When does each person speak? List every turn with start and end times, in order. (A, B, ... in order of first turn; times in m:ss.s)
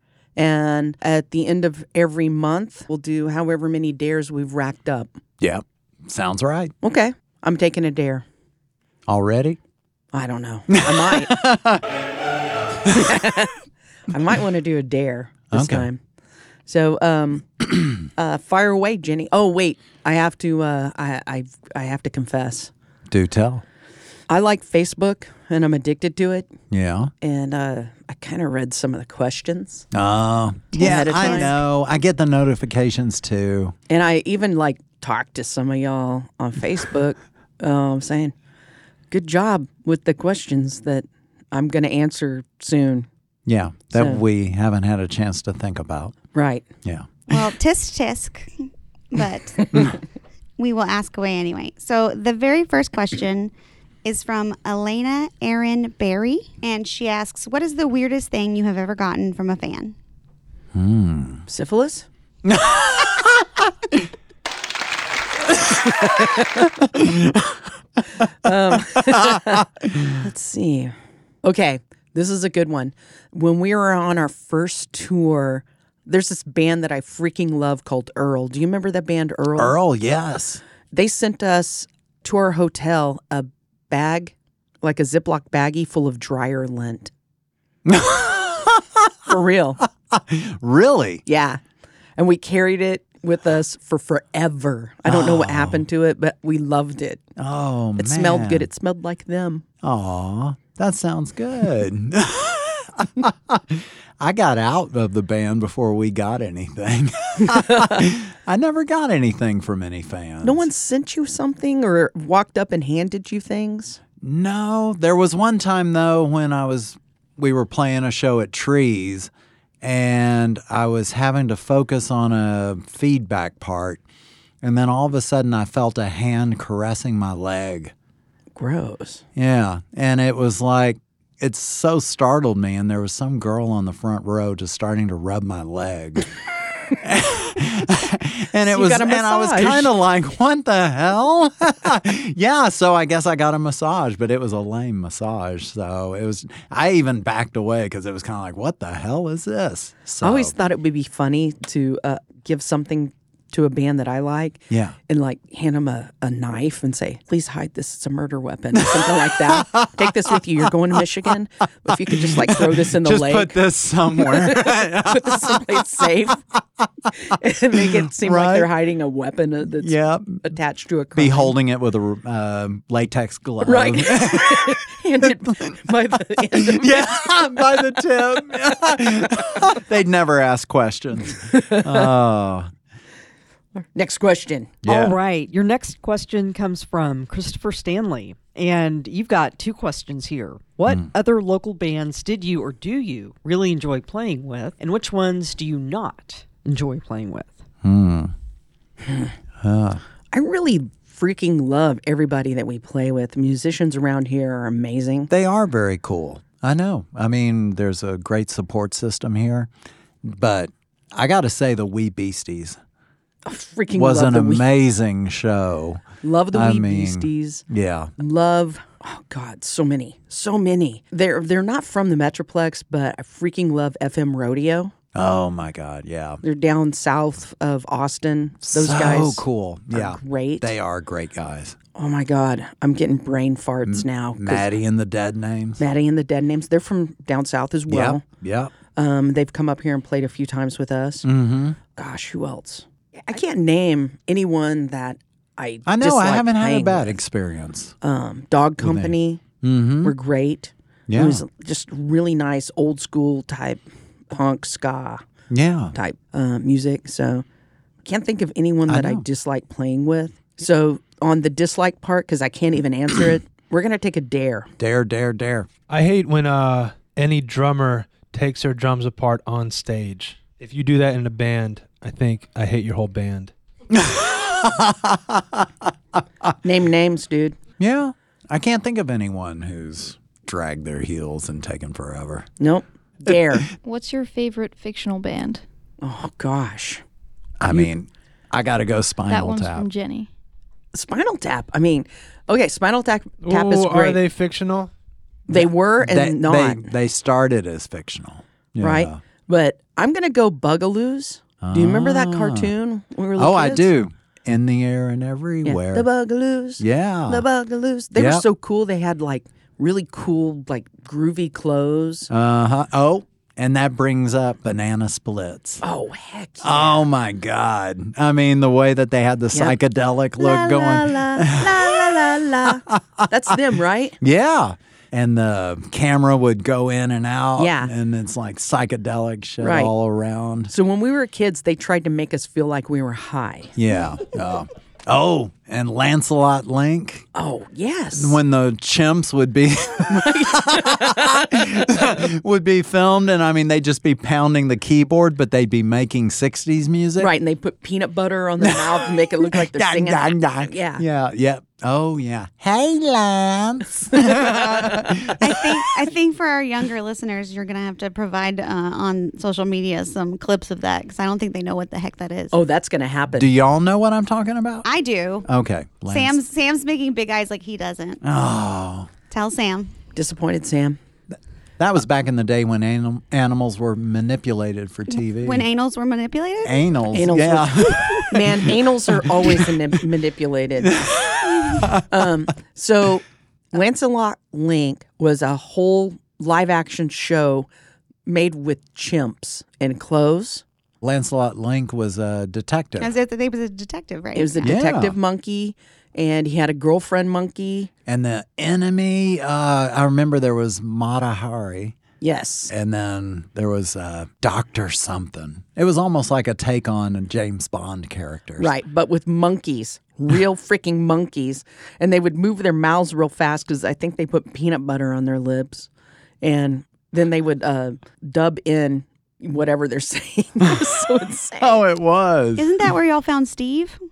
0:00.4-0:05.1 A
0:05.4-0:06.7 B
0:06.8-0:08.2 A
0:09.1-0:09.6 B
0:10.1-0:11.4 A
0:10.7-0:11.8 B
0:12.9-0:16.0 A
0:15.5-0:15.9 B
0:16.6-0:22.7 A
0:23.1-0:23.6 B
0:24.3-0:26.5 A
0:26.7-0:27.1 B
0:27.2-0:29.8 A
0:29.9-0:33.7 B
0:30.7-0:31.5 C
0:30.8-0:31.6 A
0:33.9-0:38.3 A
0:39.1-0:43.1 A
0:43.4-0:46.2 B
0:43.9-0:44.2 A
0:46.3-0:46.6 A
0:46.8-0:47.1 B
0:47.3-0:50.0 C
0:50.6-0:53.5 C
0:54.0-0:59.9 C
1:00.7-1:01.4 B
1:01.5-1:02.1 A
1:02.4-1:04.0 B
1:05.7-1:07.6 B
1:06.0-1:06.4 A
1:08.4-1:19.8 A
1:19.6-1:20.6 B
1:20.9-1:27.1 A
1:27.8-1:29.1 B
1:29.3-1:29.8 A
1:30.1-1:31.2 B
1:31.2-1:31.6 A
1:32.2-1:37.2 A
1:35.0-1:35.8 B
1:37.4-1:38.7 B
1:38.0-1:39.6 A
1:39.8-1:50.7 B
1:50.4-1:54.0 A
1:54.2-1:59.3 B
1:59.8-2:04.0 B
2:04.6-2:07.9 B
2:08.5-2:09.2 A
2:09.3-2:16.3 B
2:17.0-2:30.5 B
2:18.6-2:19.9 A
2:30.2-2:43.6 A
2:34.7-2:35.0 B
2:38.9-2:40.3 B
2:42.2-2:46.0 B
2:44.2-2:46.4 A
2:47.2-2:51.5 A
2:48.0-2:48.7 B
2:49.8-2:50.4 B
2:51.1-2:54.8 B
2:53.6-2:57.1 A
2:56.6-3:02.7 B
3:01.5-3:02.1 A
3:03.8-3:04.8 A
3:04.8-3:05.1 B
3:04.8-3:17.6 D
3:17.8-3:18.3 B
3:19.6-3:20.0 B
3:20.3-3:25.3 A
3:25.3-3:29.7 B
3:30.2-3:32.8 B
3:33.4-3:34.6 A
3:33.9-3:38.1 B
3:36.2-3:37.6 A
3:38.2-3:44.9 A
3:45.1-3:46.4 B
3:46.4-3:50.7 A
3:48.6-3:51.8 B
3:51.9-3:54.7 A
3:53.8-3:55.8 B
3:55.8-3:58.2 A
3:57.9-3:58.7 B
3:58.9-4:01.2 A
4:01.2-4:01.8 B
4:01.9-4:07.2 A
4:05.8-4:07.9 B
4:08.0-4:09.4 A
4:08.8-4:10.1 B
4:10.0-4:15.2 A
4:11.1-4:11.4 B
4:15.5-4:15.9 B
4:15.9-4:17.4 A
4:18.0-4:24.7 A
4:18.9-4:19.2 B
4:24.8-4:25.7 B
4:25.9-4:33.5 E
4:33.9-4:35.9 B
4:36.6-4:37.6 A
4:37.8-4:42.5 B
4:42.6-4:43.7 A
4:43.3-4:43.6 B
4:43.8-4:45.6 F
4:46.0-4:47.0 A
4:47.6-4:49.9 B
4:49.2-4:50.3 F
4:50.9-4:54.2 A
4:53.4-4:54.9 E
4:55.5-4:56.9 A
4:55.5-4:59.2 B
4:58.8-5:03.9 A
5:01.6-5:02.7 B
5:03.4-5:06.1 B
5:05.6-5:12.3 A
5:06.8-5:07.5 B
5:08.1-5:08.4 B
5:12.3-5:15.8 B
5:15.8-5:17.1 A
5:16.6-5:22.3 B
5:20.4-5:24.2 A
5:22.9-5:23.2 B
5:24.2-5:30.7 B
5:27.6-5:27.9 A
5:29.6-5:29.9 A
5:30.7-5:33.7 A
5:33.8-5:37.3 B
5:37.3-5:38.4 A
5:38.1-5:47.3 B
5:40.1-5:41.5 A
5:47.2-5:51.0 A
5:48.6-5:56.1 B
5:55.4-6:02.5 C
6:02.5-6:03.5 A
6:03.3-6:04.9 B
6:04.8-6:05.5 C
6:05.4-6:06.4 B
6:06.1-6:08.2 C
6:08.2-6:09.1 B
6:09.3-6:09.9 C
6:10.1-6:11.0 A
6:11.8-6:15.7 B
6:15.1-6:16.9 C
6:16.6-6:18.8 B
6:17.1-6:21.0 A
6:19.4-6:19.7 B
6:21.0-6:22.0 B
6:21.9-6:27.7 A
6:28.2-6:30.6 A
6:31.0-6:33.1 B
6:33.0-6:34.7 C
6:34.3-6:37.9 A
6:34.6-6:35.2 B
6:38.0-6:42.0 B
6:42.2-6:42.7 A
6:42.7-6:48.7 B
6:48.6-6:55.9 A
6:56.4-7:01.8 A
7:01.6-7:02.8 B
7:02.6-7:04.0 C